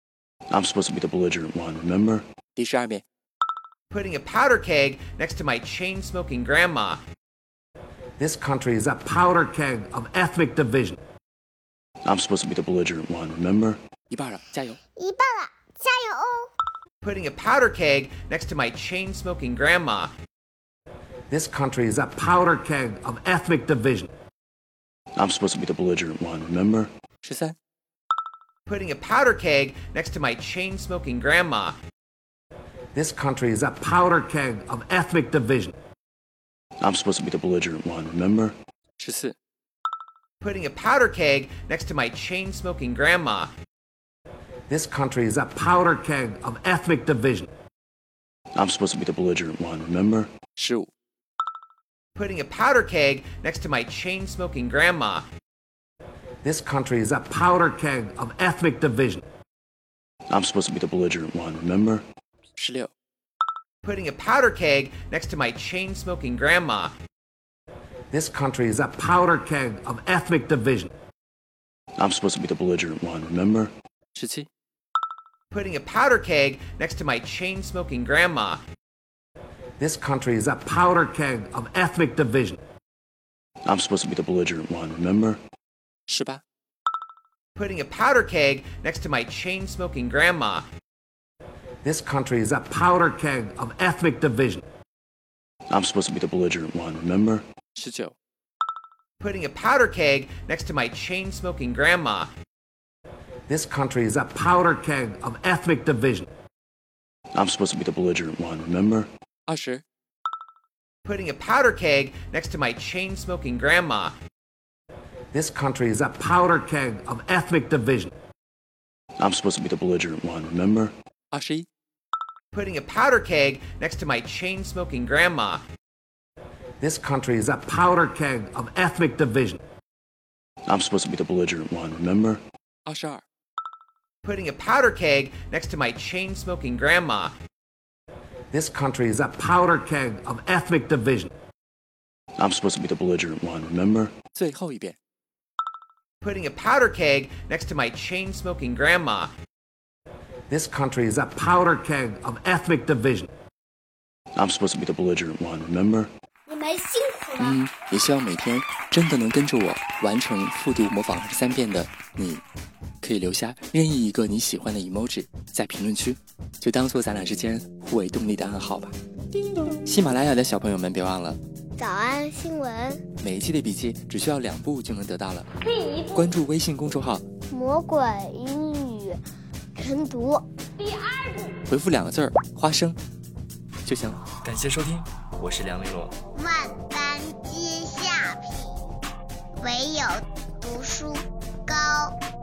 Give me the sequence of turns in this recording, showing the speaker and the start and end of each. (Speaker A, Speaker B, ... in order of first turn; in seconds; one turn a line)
Speaker A: 0.5-2.3
Speaker B: 2.5-3.0
Speaker C: 3.9-7.0
Speaker D: 8.2-11.0
Speaker A: 12.0-13.8
Speaker B: 14.1-14.8
Speaker E: 15.0-16.5
Speaker C: 17.0-20.1
Speaker D: 21.3-24.1
Speaker A: 25.1-26.9
Speaker B: 27.2-27.5
Speaker C: 28.6-31.8
Speaker D: 32.9-35.7
Speaker A: 36.8-38.6
Speaker B: 39.0-39.4
Speaker C: 40.4-43.5
Speaker D: 44.7-47.5
Speaker A: 48.5-50.3
Speaker B: 50.6-50.9
Speaker C: 52.1-55.3
Speaker D: 56.4-59.2
Speaker A: 60.3-62.0
Speaker B: 62.6-62.9
Speaker C: 63.8-66.9
Speaker D: 68.1-70.9
Speaker A: 72.0-73.7
Speaker B: 74.1-74.5
Speaker C: 75.5-78.6
Speaker D: 79.8-82.6
Speaker A: 83.6-85.4
Speaker B: 86.1-86.4
Speaker C: 87.5-90.7
Speaker D: 91.8-94.6
Speaker A: 95.7-97.5
Speaker B: 97.7-98.1
Speaker C: 99.2-102.3
Speaker D: 103.5-106.3
Speaker A: 107.3-109.1
Speaker B: 109.5-109.8
Speaker C: 111.0-114.1
Speaker D: 115.3-118.1
Speaker A: 119.2-120.9
Speaker B: 121.3-121.7
Speaker C: 122.5-125.6
Speaker D: 126.8-129.6
Speaker A: 130.7-132.4
Speaker B: 132.9-133.2
Speaker C: 134.2-137.3
Speaker D: 138.5-141.3
Speaker A: 142.4-144.1
Speaker B: 144.3-145.0
Speaker C: 146.2-149.3
Speaker D: 150.5-153.3
Speaker A: 154.3-156.1
Speaker E: 156.5-157.4
Speaker B: 157.4-162.4
Speaker B: 163.0-168.9
Speaker B: 169.8-171.4
Speaker E: 171.8-173.0
Speaker B: 173.2-175.5
Speaker B: 176.1-177.2
Speaker E: 177.5-179.2
Speaker E: 179.7-180.4
Speaker B: 181.7-183.0
Speaker B: 183.8-186.1
Speaker A: 187.0-187.8